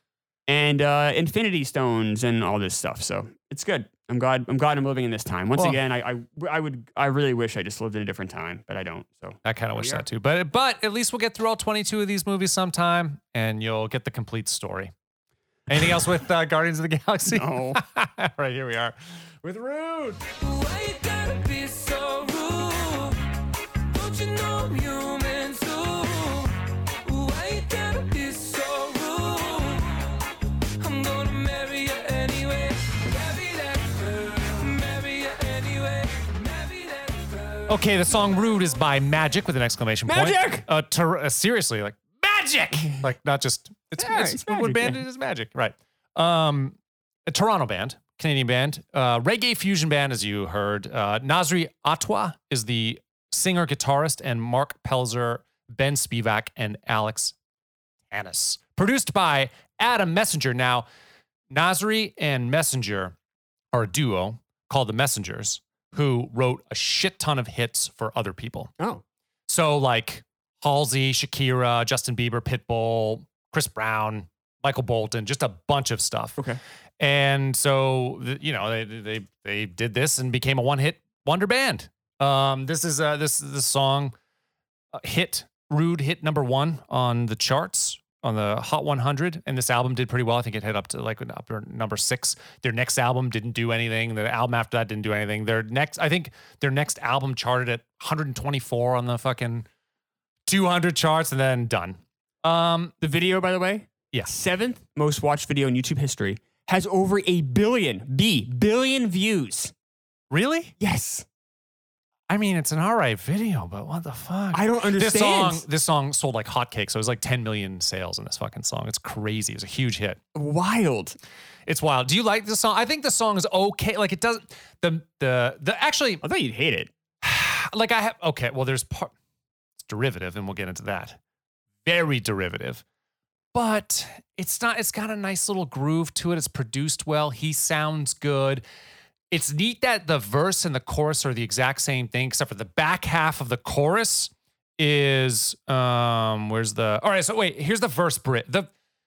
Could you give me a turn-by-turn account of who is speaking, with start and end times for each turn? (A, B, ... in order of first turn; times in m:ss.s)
0:00.5-0:10.0 A
0:09.4-0:14.9 B
0:15.7-0:20.2 B
0:17.2-0:17.8 A
0:20.3-0:23.2 C
0:23.9-0:30.2 C
0:30.8-0:37.7 C
0:37.7-0:57.3 B
0:40.0-0:40.6 A
0:44.0-0:45.0 A
0:58.1-1:00.8 B
1:01.5-1:03.1 B
1:03.7-1:08.7 B
1:09.5-1:16.4 B
1:17.0-1:24.1 B
1:24.9-1:39.7 B
1:40.5-1:42.9 B
1:43.0-1:49.7 A
1:50.3-1:50.7 B
1:50.8-1:51.2 A
1:52.3-2:00.2 B
1:54.5-1:55.6 A
2:00.3-2:01.2 A
2:01.7-2:06.2 B
2:06.2-2:06.9 A
2:07.2-2:09.1 B
2:09.8-2:11.2 B
2:11.8-2:12.8 B
2:13.5-2:18.6 B
2:19.3-2:28.7 B